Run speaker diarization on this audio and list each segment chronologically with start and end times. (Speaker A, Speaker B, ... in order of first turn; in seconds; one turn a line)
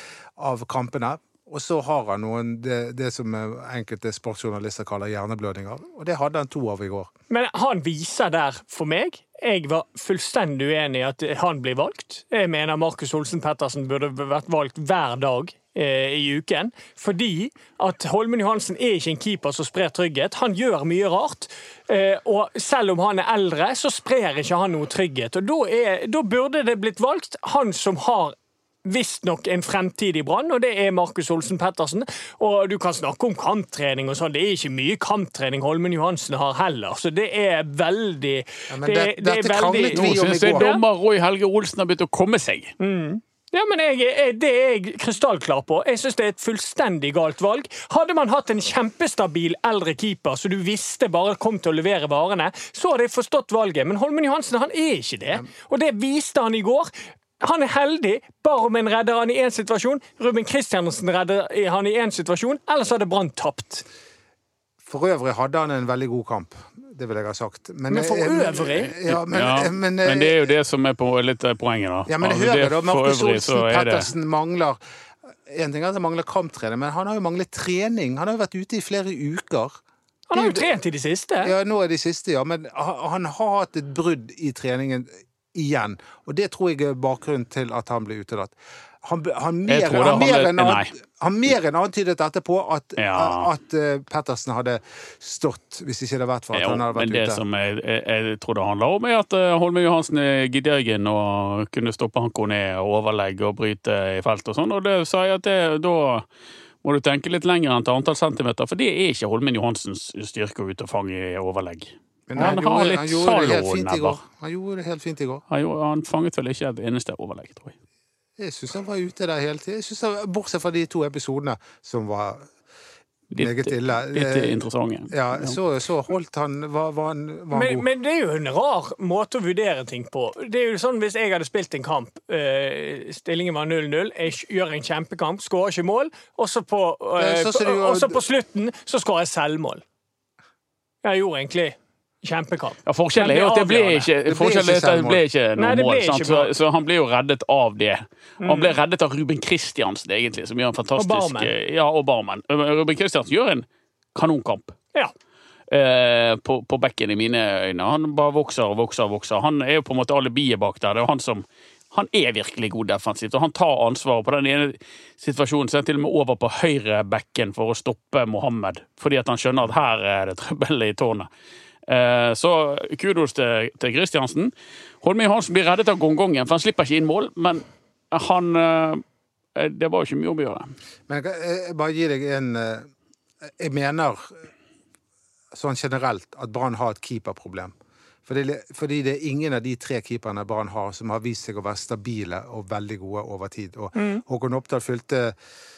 Speaker A: 0.4-7.1
Speaker B: 7.3-40.8
Speaker A: 38.7-40.7
Speaker C: 39.9-42.7
Speaker B: 42.8-63.9
Speaker A: 64.8-70.4
Speaker B: 67.9-69.0
Speaker C: 69.1-74.1
Speaker A: 72.1-74.8
Speaker A: 75.5-79.8
Speaker B: 80.3-81.5
Speaker A: 80.3-80.7
Speaker A: 81.4-97.4
Speaker C: 89.7-90.9
Speaker C: 93.0-93.5
Speaker C: 96.5-106.3
Speaker C: 106.8-114.2
Speaker A: 112.3-115.4
Speaker C: 115.5-117.8
Speaker A: 118.4-122.5
Speaker C: 123.3-125.6
Speaker A: 123.3-127.9
Speaker B: 127.5-139.8
Speaker A: 137.2-138.2
Speaker B: 141.0-144.1
Speaker C: 142.9-154.8
Speaker A: 144.2-145.2
Speaker B: 145.6-146.5
Speaker B: 148.4-148.8
Speaker B: 151.0-151.5
Speaker C: 155.7-171.3
Speaker C: 171.9-179.0
Speaker C: 179.6-180.7
Speaker A: 181.1-182.9
Speaker A: 183.5-184.4
Speaker A: 185.5-187.7
Speaker A: 188.3-195.3
Speaker B: 194.0-194.2